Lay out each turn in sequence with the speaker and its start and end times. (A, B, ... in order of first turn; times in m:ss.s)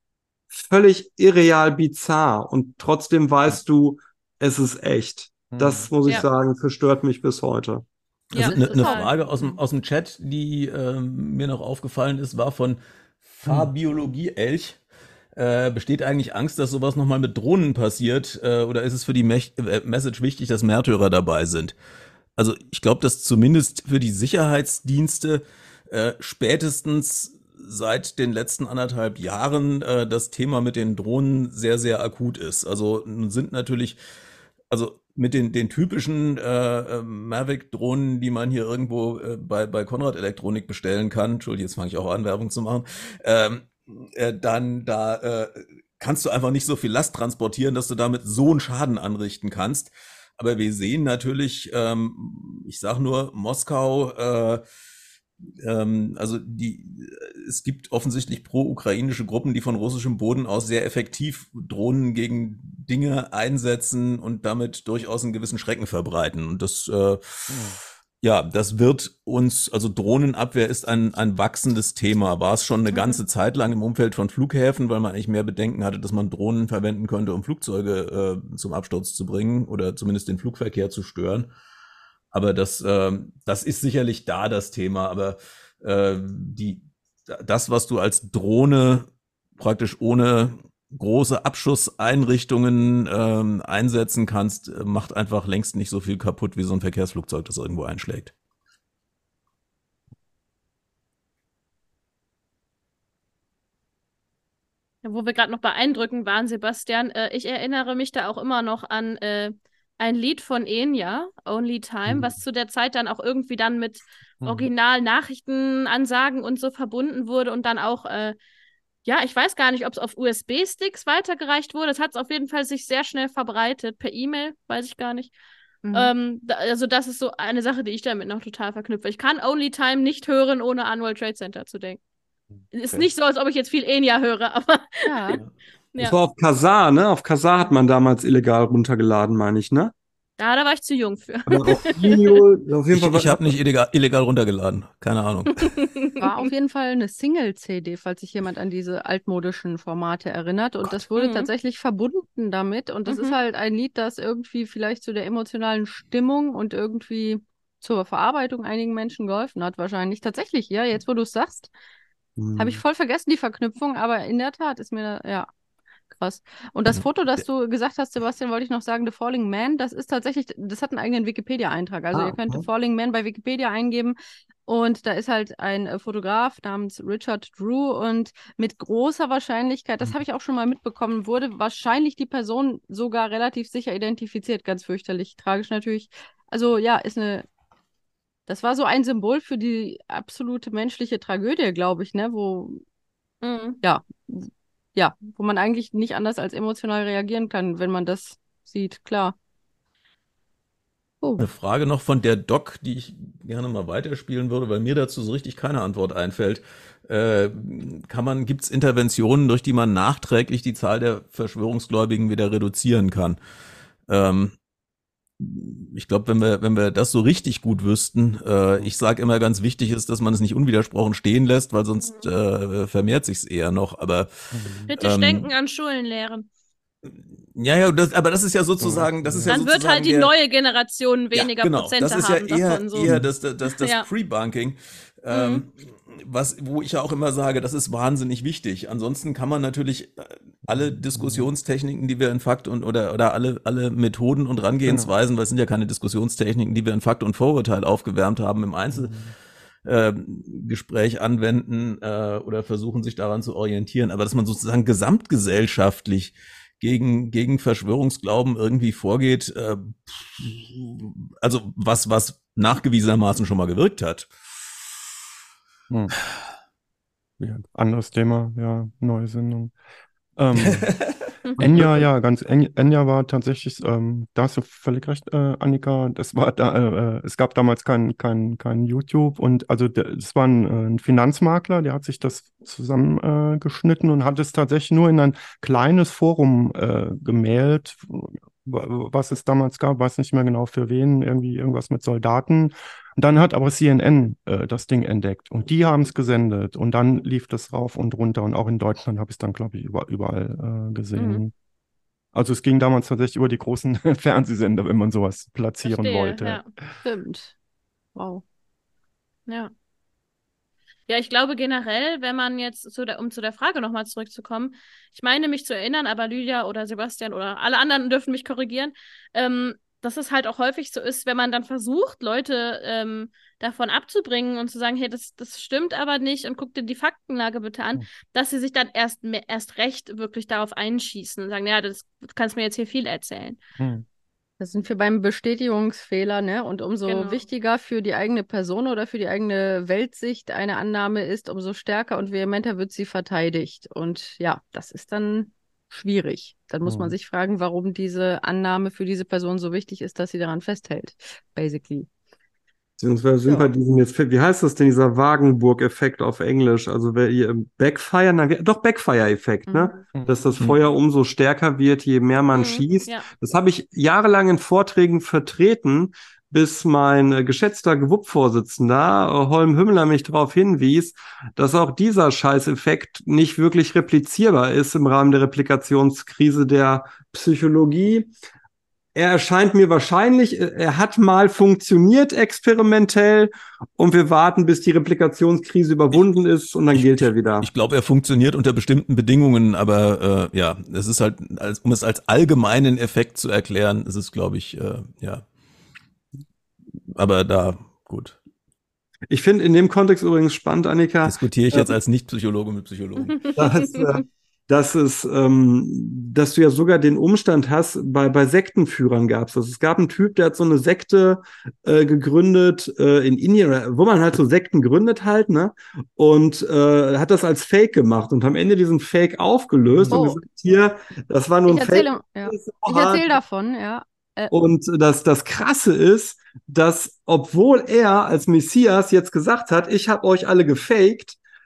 0:00.5-0:07.8 A
0:05.5-0:05.9 B
0:08.3-0:14.8 C
0:08.3-0:09.1 D
0:08.4-0:09.1 E
0:15.3-0:21.7 C
0:22.4-0:34.0 C
0:34.7-0:54.6 C
0:55.6-1:21.5 C
1:07.5-1:07.8 B
1:12.9-1:13.2 D
1:22.3-1:29.0 C
1:29.6-1:38.3 C
1:45.0-1:58.4 D
1:54.4-1:54.7 B
1:59.0-2:05.3 D
2:05.8-2:06.1 E
2:05.9-2:12.0 D
2:12.6-2:13.0 B
2:12.7-2:15.4 D
2:15.0-2:15.4 E
2:16.0-2:19.9 A
2:20.4-2:22.4 D
2:21.5-2:23.5 A
2:22.9-2:25.7 C
2:25.6-2:26.4 D
2:26.2-2:41.7 E
2:31.1-2:31.5 D
2:33.0-2:33.4 D
2:42.4-2:42.8 A
2:42.6-2:45.5 E
2:46.1-3:07.4 E
2:52.1-2:52.6 A
3:08.5-3:12.8 E
3:13.4-3:13.8 D
3:13.8-3:19.3 E
3:21.2-3:21.5 E
3:21.4-3:33.4 C
3:34.1-3:34.5 C
3:35.4-3:45.5 C
3:44.5-3:44.9 B
3:44.9-3:46.5 D
3:47.0-3:50.3 C
3:48.8-3:49.6 B
3:49.5-3:53.1 D
3:51.3-4:09.2 C
3:53.0-3:53.3 B
3:53.6-3:54.1 D
3:55.3-3:55.6 D
4:00.7-4:01.5 B
4:04.8-4:05.1 B
4:08.9-4:09.3 B
4:09.8-4:24.3 C
4:27.4-4:29.7 B
4:30.4-4:30.9 B
4:30.6-4:31.2 C
4:31.6-5:01.5 B
4:31.7-4:32.0 C
5:01.1-5:01.4 D
5:02.3-5:06.7 B
5:05.8-5:06.7 D
5:07.0-5:07.5 E
5:08.1-5:08.4 E
5:09.5-5:09.7 D
5:11.1-5:33.6 D
5:33.8-5:34.0 B
5:34.6-5:52.1 E
5:37.0-5:37.4 D
5:46.8-5:47.1 B
5:53.0-6:18.3 A
5:59.7-6:00.1 E
6:00.1-6:00.4 B
6:02.5-6:03.3 D
6:19.1-6:27.7 A
6:26.9-6:35.4 C
6:37.1-6:38.4 C
6:39.3-6:41.9 A
6:41.2-6:43.6 C
6:43.3-6:44.0 D
6:43.5-7:03.3 A
6:59.9-7:00.3 B
7:00.1-7:00.4 E
7:01.7-7:04.5 E
7:04.5-7:11.4 A